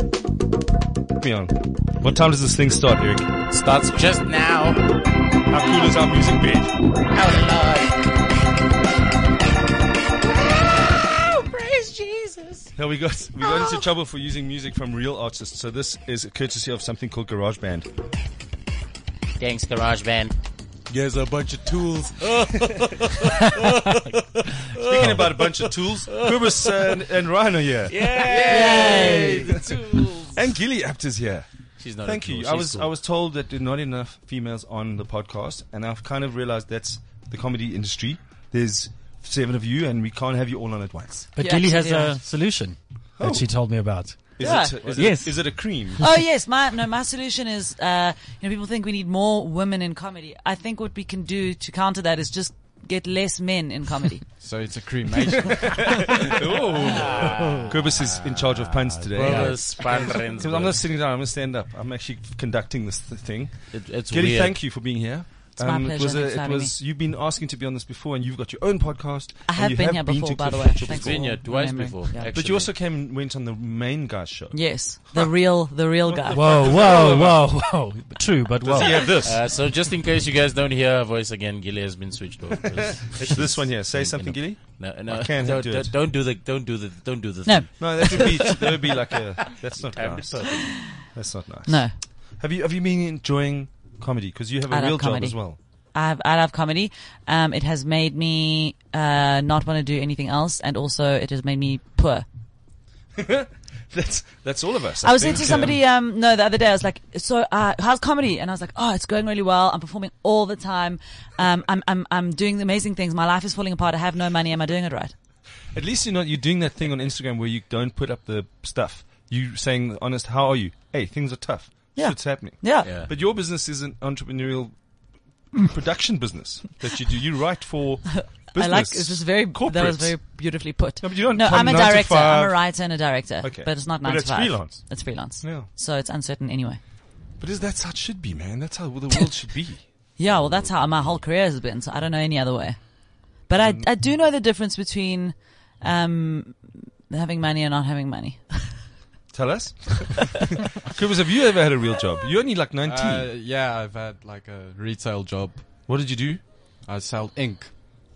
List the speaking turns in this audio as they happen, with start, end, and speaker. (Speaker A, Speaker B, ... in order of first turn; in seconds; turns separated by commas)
Speaker A: 1.2-3.3, Speaker B: 3.5-4.8, Speaker A: 5.5-6.7, Speaker B: 7.1-8.1, Speaker B: 10.7-12.7, Speaker A: 12.8-17.9, Speaker B: 19.4-20.3, Speaker B: 20.9-27.0, Speaker A: 24.8-31.5, Speaker B: 27.9-30.4, Speaker C: 28.3-29.4, Speaker D: 28.4-29.5, Speaker B: 31.8-32.9, Speaker A: 32.0-41.3, Speaker E: 41.3-45.8, Speaker D: 41.4-42.2, Speaker A: 43.2-43.5, Speaker A: 44.4-46.0, Speaker D: 44.4-44.8, Speaker D: 46.0-54.2, Speaker C: 54.4-56.3, Speaker A: 55.5-71.4, Speaker B: 56.7-60.8, Speaker E: 57.4-57.7, Speaker B: 63.7-64.6, Speaker D: 65.6-66.8, Speaker D: 69.5-72.3, Speaker B: 70.8-72.7, Speaker A: 72.3-75.3, Speaker D: 74.5-76.8, Speaker A: 76.0-77.6, Speaker E: 76.3-79.2, Speaker A: 78.6-79.4, Speaker B: 79.2-88.3, Speaker A: 83.0-85.9, Speaker D: 87.4-88.6, Speaker A: 87.8-95.6, Speaker B: 89.9-90.7, Speaker D: 90.7-91.0, Speaker D: 91.7-91.9, Speaker D: 94.7-102.2, Speaker A: 103.1-105.8, Speaker D: 105.0-115.1, Speaker A: 115.7-124.8, Speaker D: 121.9-122.9, Speaker B: 122.8-123.1, Speaker A: 125.5-130.2, Speaker D: 128.1-136.8, Speaker A: 131.0-132.9, Speaker A: 133.4-135.7, Speaker A: 137.4-139.8, Speaker D: 140.2-148.8, Speaker B: 140.2-141.2, Speaker A: 143.6-143.9, Speaker A: 149.3-153.3, Speaker C: 152.8-155.8, Speaker A: 155.9-156.4, Speaker C: 156.8-157.7